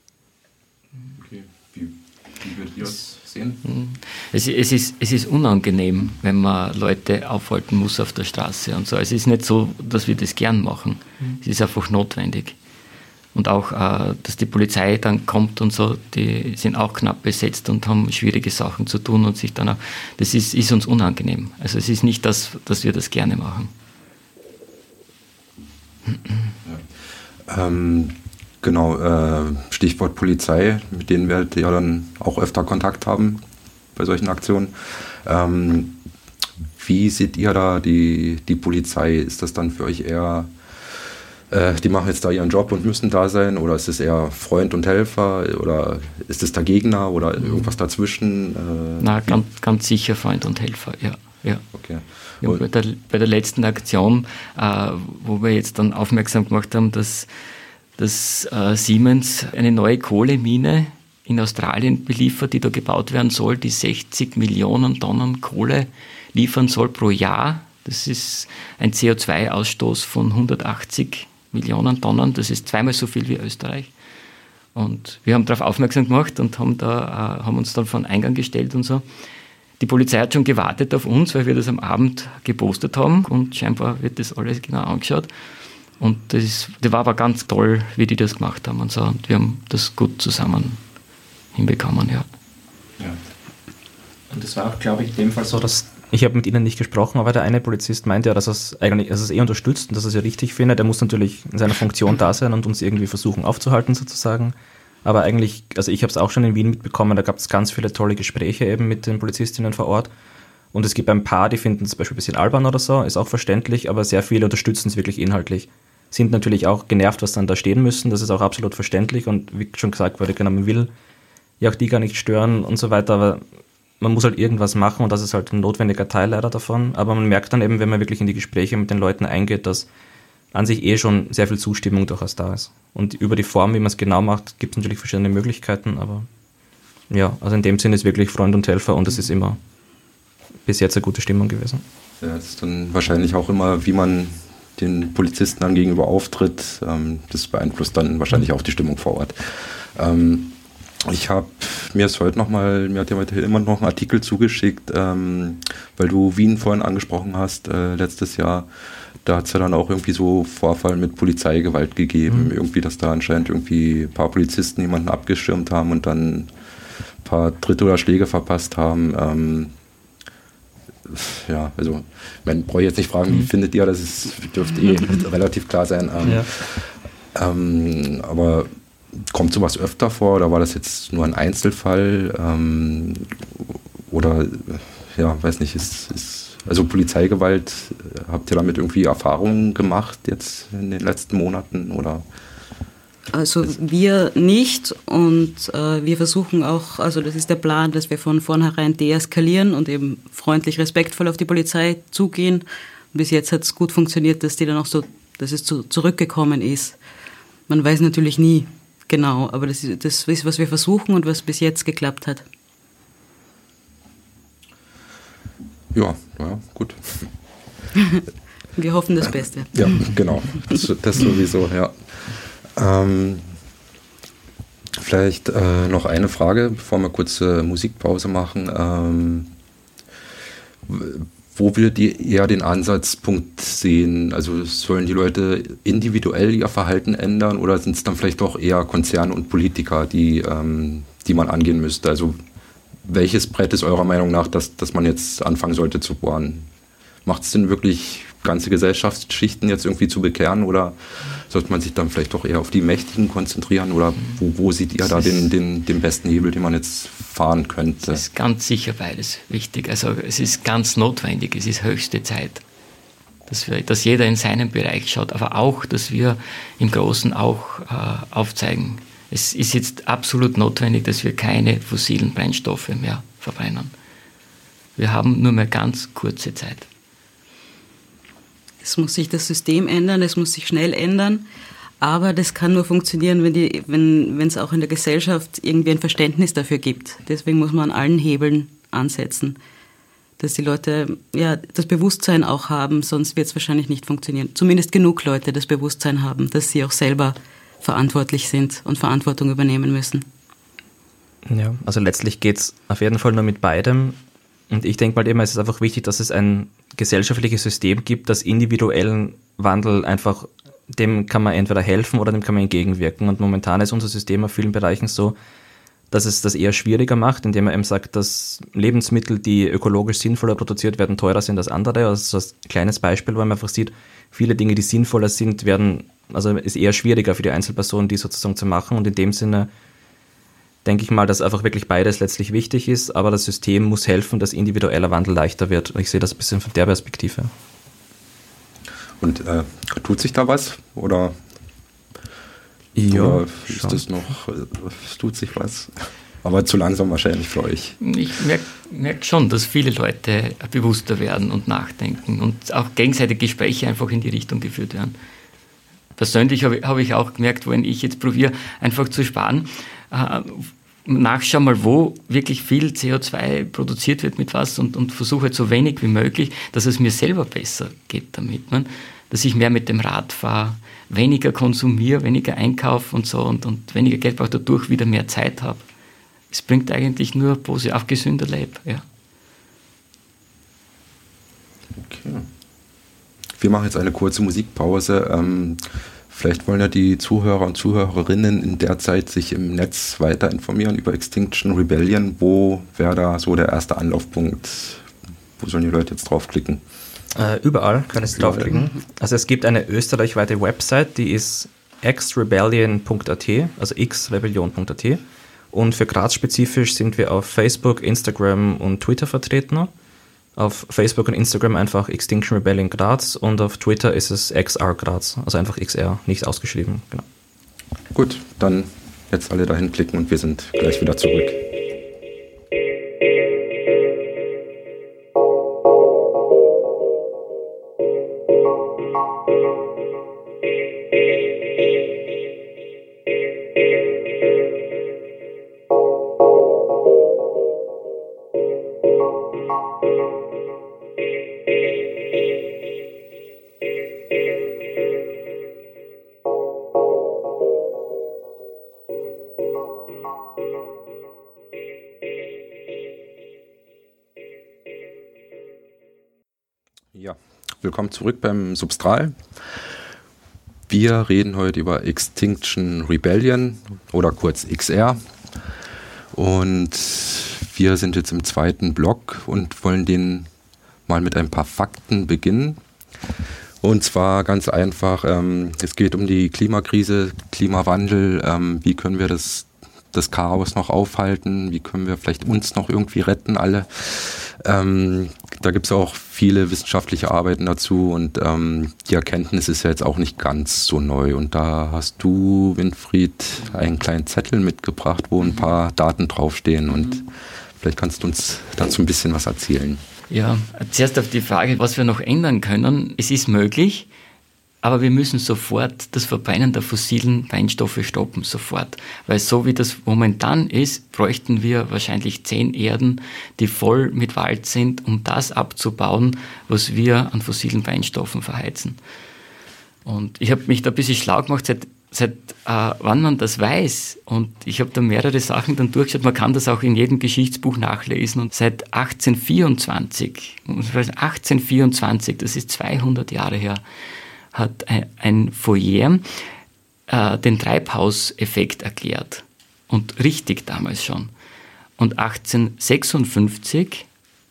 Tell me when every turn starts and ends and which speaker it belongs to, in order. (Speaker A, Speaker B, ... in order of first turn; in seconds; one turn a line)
Speaker A: 1.2-3.6
Speaker B: 3.6-12.6
Speaker B: 13.3-23.7
Speaker A: 27.5-33.4
Speaker A: 34.0-36.0
Speaker A: 36.8-40.5
Speaker A: 41.5-49.4
Speaker B: 49.0-51.6
Speaker A: 51.7-52.6
Speaker B: 52.4-57.3
Speaker B: 58.0-73.9
Speaker B: 74.8-79.0
Speaker B: 79.8-85.3
Speaker B: 86.0-90.8
Speaker B: 91.5-92.3
Speaker C: 94.3-110.1
Speaker C: 110.7-120.9
Speaker C: 121.6-123.4
Speaker C: 124.0-129.9
Speaker C: 130.5-136.3
Speaker C: 137.1-139.6
Speaker C: 140.7-141.8
Speaker A: 142.2-158.7
Speaker A: 159.2-166.5
Speaker A: 167.2-169.7
Speaker A: 171.1-192.2
Speaker D: 193.3-207.0
Speaker D: 207.7-212.4
Speaker A: 215.9-217.3
Speaker D: 218.0-218.2
Speaker D: 218.8-220.1
Speaker A: 219.7-223.5
Speaker A: 224.9-229.5
Speaker A: 230.9-242.4
Speaker A: 243.0-246.7
Speaker A: 247.2-258.2
Speaker B: 258.1-262.6
Speaker B: 263.5-273.9
Speaker B: 275.0-276.9
Speaker D: 278.8-281.4
Speaker D: 282.0-289.6
Speaker D: 290.4-300.2
Speaker C: 301.5-304.2
Speaker C: 304.7-315.4
Speaker C: 316.1-329.7
Speaker C: 330.8-337.5
Speaker A: 339.2-341.4
Speaker C: 342.9-344.0
Speaker A: 343.1-348.0
Speaker B: 348.0-355.1
Speaker B: 356.2-375.8
Speaker B: 376.5-379.1
Speaker A: 381.9-382.5
Speaker A: 383.6-395.1
Speaker A: 395.6-396.8
Speaker C: 397.3-409.9
Speaker A: 398.4-398.8
Speaker C: 410.6-417.2
Speaker A: 418.1-421.6
Speaker A: 457.1-459.4
Speaker A: 460.9-465.2
Speaker A: 466.3-470.5
Speaker A: 471.1-472.8
Speaker A: 473.8-500.0
Speaker B: 500.3-504.1
Speaker B: 504.8-519.0
Speaker B: 520.1-533.8
Speaker B: 534.5-536.4
Speaker B: 537.1-541.3
Speaker B: 542.0-544.1